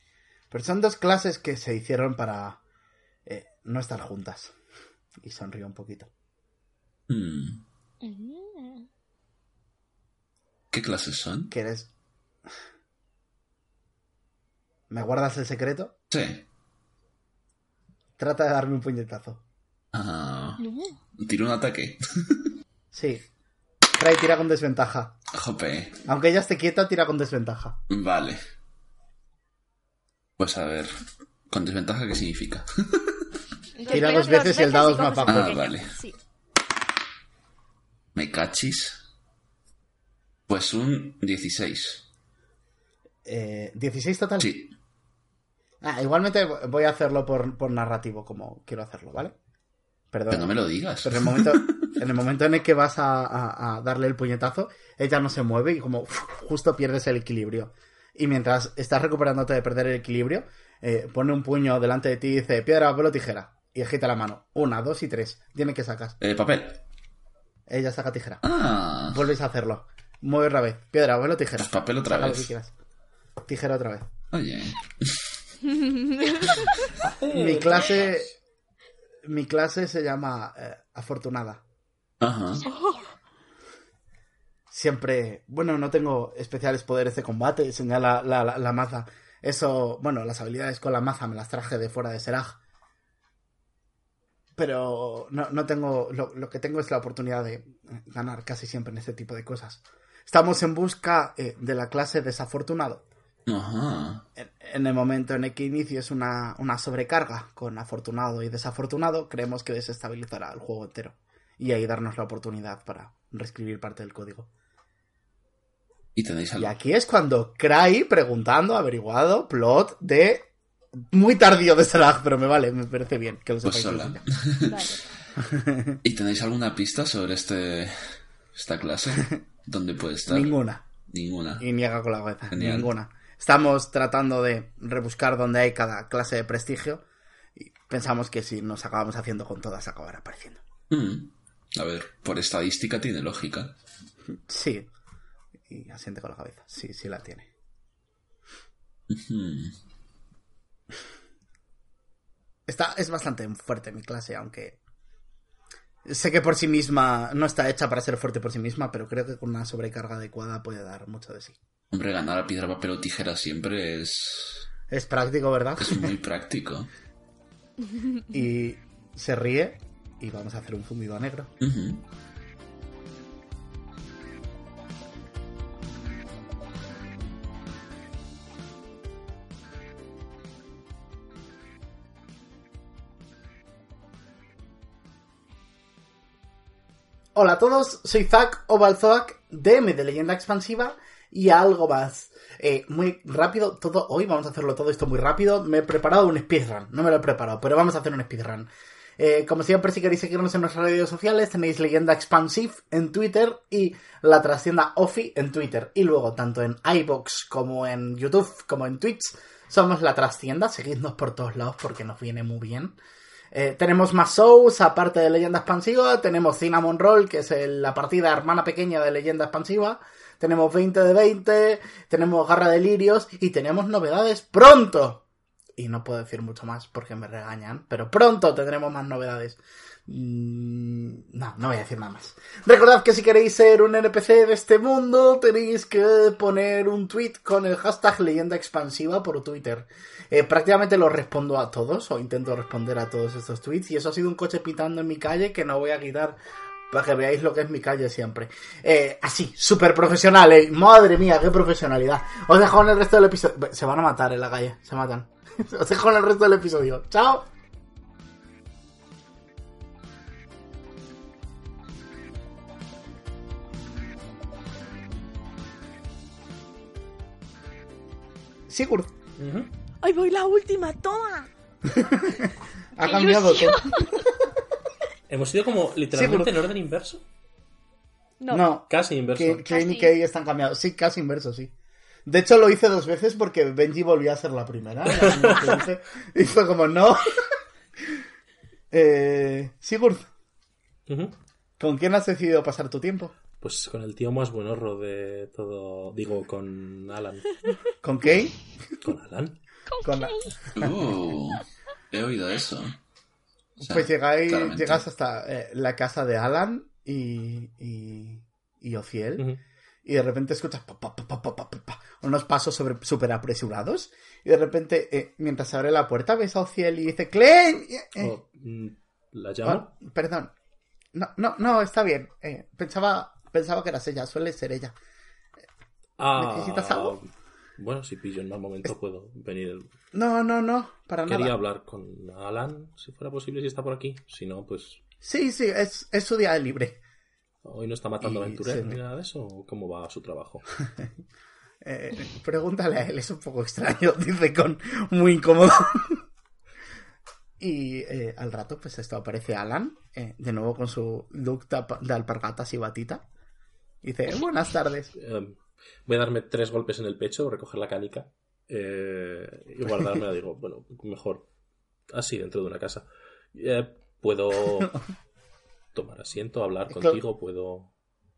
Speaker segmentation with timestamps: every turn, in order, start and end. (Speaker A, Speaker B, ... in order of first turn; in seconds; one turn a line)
Speaker A: 0.5-2.6
Speaker A: 3.3-4.5
Speaker A: 5.2-6.1
Speaker B: 7.1-7.6
Speaker C: 8.0-8.9
Speaker B: 10.7-11.5
Speaker A: 11.5-11.9
Speaker A: 14.9-15.9
Speaker B: 16.1-16.4
Speaker A: 18.2-19.4
Speaker B: 19.9-20.6
Speaker B: 21.2-22.5
Speaker A: 22.9-23.3
Speaker A: 24.0-25.2
Speaker B: 25.3-26.0
Speaker A: 26.1-27.8
Speaker B: 27.9-28.4
Speaker B: 30.4-33.2
Speaker C: 33.8-34.7
Speaker D: 33.8-36.1
Speaker A: 33.9-35.6
Speaker B: 35.3-36.0
Speaker B: 38.1-39.0
Speaker B: 40.5-42.0
Speaker A: 43.3-44.5
Speaker B: 44.4-44.7
Speaker A: 45.8-49.4
Speaker A: 50.1-66.2
Speaker B: 50.3-51.8
Speaker B: 66.2-66.8
Speaker A: 67.7-68.5
Speaker B: 68.4-69.2
Speaker A: 69.0-72.7
Speaker B: 71.6-72.5
Speaker A: 73.5-74.1
Speaker B: 74.3-75.3
Speaker E: 77.0-78.1
Speaker A: 77.3-78.3
Speaker A: 79.2-81.6
Speaker B: 82.2-82.7
Speaker C: 82.6-82.9
Speaker A: 84.7-92.6
Speaker A: 94.6-103.0
Speaker B: 103.5-104.3
Speaker A: 104.4-114.5
Speaker B: 116.2-116.7
Speaker A: 116.6-120.5
Speaker A: 121.1-124.3
Speaker B: 123.6-124.9
Speaker D: 124.7-125.0
Speaker A: 125.4-126.0
Speaker B: 126.0-130.6
Speaker A: 130.3-130.9
Speaker B: 131.1-131.7
Speaker A: 131.6-137.0
Speaker B: 132.5-132.9
Speaker A: 137.6-140.6
Speaker B: 140.9-143.8
Speaker A: 144.5-144.9
Speaker A: 145.7-147.5
Speaker B: 149.1-149.8
Speaker A: 152.7-154.8
Speaker A: 156.1-161.6
Speaker B: 161.9-164.7
Speaker A: 164.9-166.2
Speaker B: 165.8-166.9
Speaker A: 168.3-171.5
Speaker B: 171.6-172.0
Speaker A: 187.3-213.0
Speaker A: 213.5-225.2
Speaker A: 225.8-246.4
Speaker A: 246.9-257.5
Speaker A: 268.7-269.1
Speaker E: 269.4-269.7
Speaker D: 270.0-271.5
Speaker A: 271.9-274.5
Speaker C: 273.0-274.1
Speaker E: 275.3-277.2
Speaker A: 276.1-276.6
Speaker D: 278.4-278.7
Speaker A: 278.5-281.7
Speaker E: 278.8-279.7
Speaker C: 279.7-280.1
Speaker D: 279.8-280.1
Speaker A: 282.3-287.6
Speaker E: 285.1-285.9
Speaker A: 288.9-290.3
Speaker E: 291.1-291.4
Speaker A: 291.8-293.4
Speaker E: 293.6-297.7
Speaker A: 298.0-298.7
Speaker E: 299.0-299.6
Speaker C: 299.9-300.6
Speaker A: 300.0-300.9
Speaker B: 300.8-303.0
Speaker A: 303.8-309.5
Speaker B: 303.8-305.0
Speaker A: 310.1-318.3
Speaker E: 318.2-319.9
Speaker A: 319.6-320.5
Speaker A: 321.1-324.9
Speaker E: 326.2-329.9
Speaker A: 326.4-327.2
Speaker A: 330.1-331.6
Speaker E: 331.3-335.0
Speaker A: 335.2-337.0
Speaker E: 337.6-340.8
Speaker A: 338.2-339.0
Speaker A: 341.8-346.2
Speaker A: 347.6-353.2
Speaker A: 354.0-355.1
Speaker E: 355.2-361.5
Speaker E: 362.1-365.0
Speaker E: 365.9-367.9
Speaker A: 366.9-367.2